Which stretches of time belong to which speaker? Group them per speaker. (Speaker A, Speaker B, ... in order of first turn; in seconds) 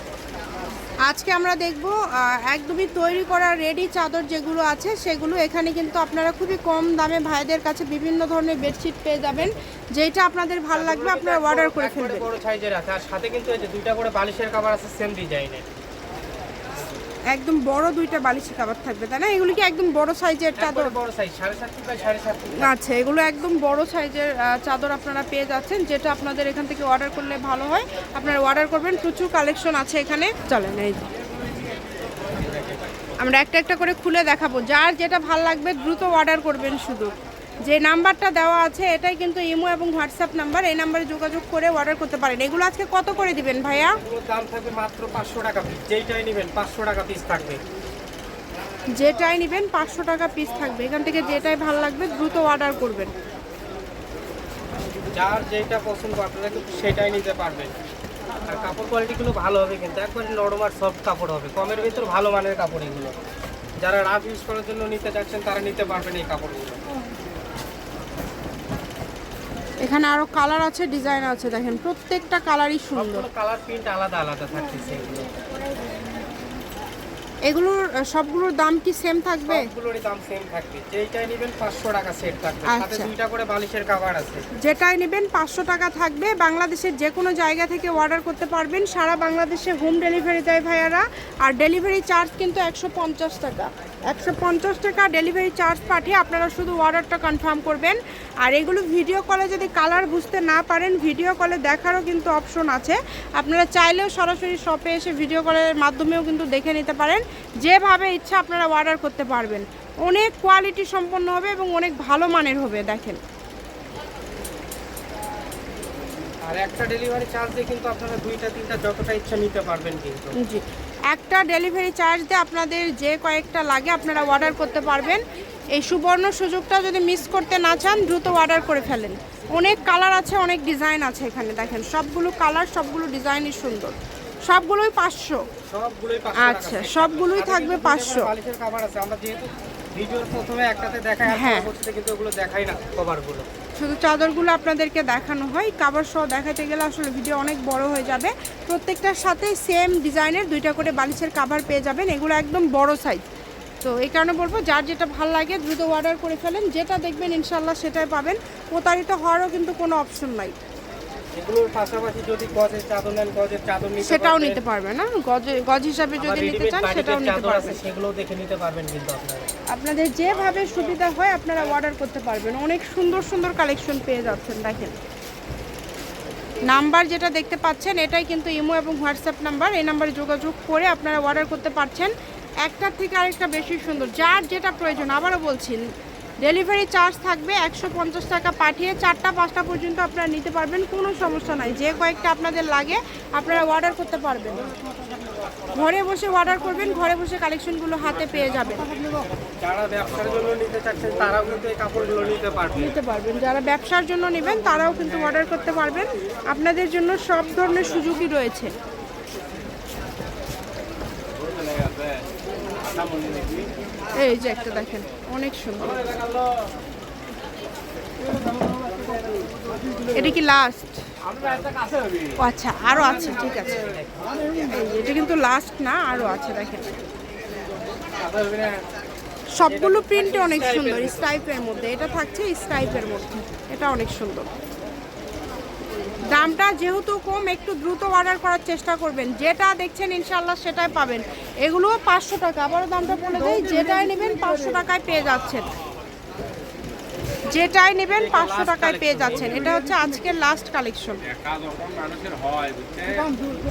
Speaker A: 1.0-12.2, 17.3-20.9, 22.6-31.1, 33.2-37.1, 37.6-44.0, 49.0-53.1, 69.8-73.2, 77.5-79.7, 82.7-83.1, 84.6-113.2, 120.4-125.2, 125.7-133.9, 134.5-135.5, 136.3-138.3, 141.3-141.7, 143.8-153.2, 153.8-160.5, 164.0-167.8, 169.7-174.9, 176.7-185.8, 186.4-194.6, 195.7-198.8, 202.8-208.7, 214.2-216.1, 220.1-221.0, 222.4-223.8, 224.7-226.9, 229.6-234.5, 236.2-245.7, 247.5-251.2
Speaker B: 10.7-15.6, 20.6-22.7, 32.4-32.8, 44.0-47.6, 55.1-57.7, 58.5-63.1, 63.8-66.8, 73.0-75.3, 79.5-84.4, 116.4-120.3, 135.7-143.4, 161.3-164.6, 166.2-169.5, 199.6-202.9, 222.9-224.1, 229.7-231.3, 248.1-249.7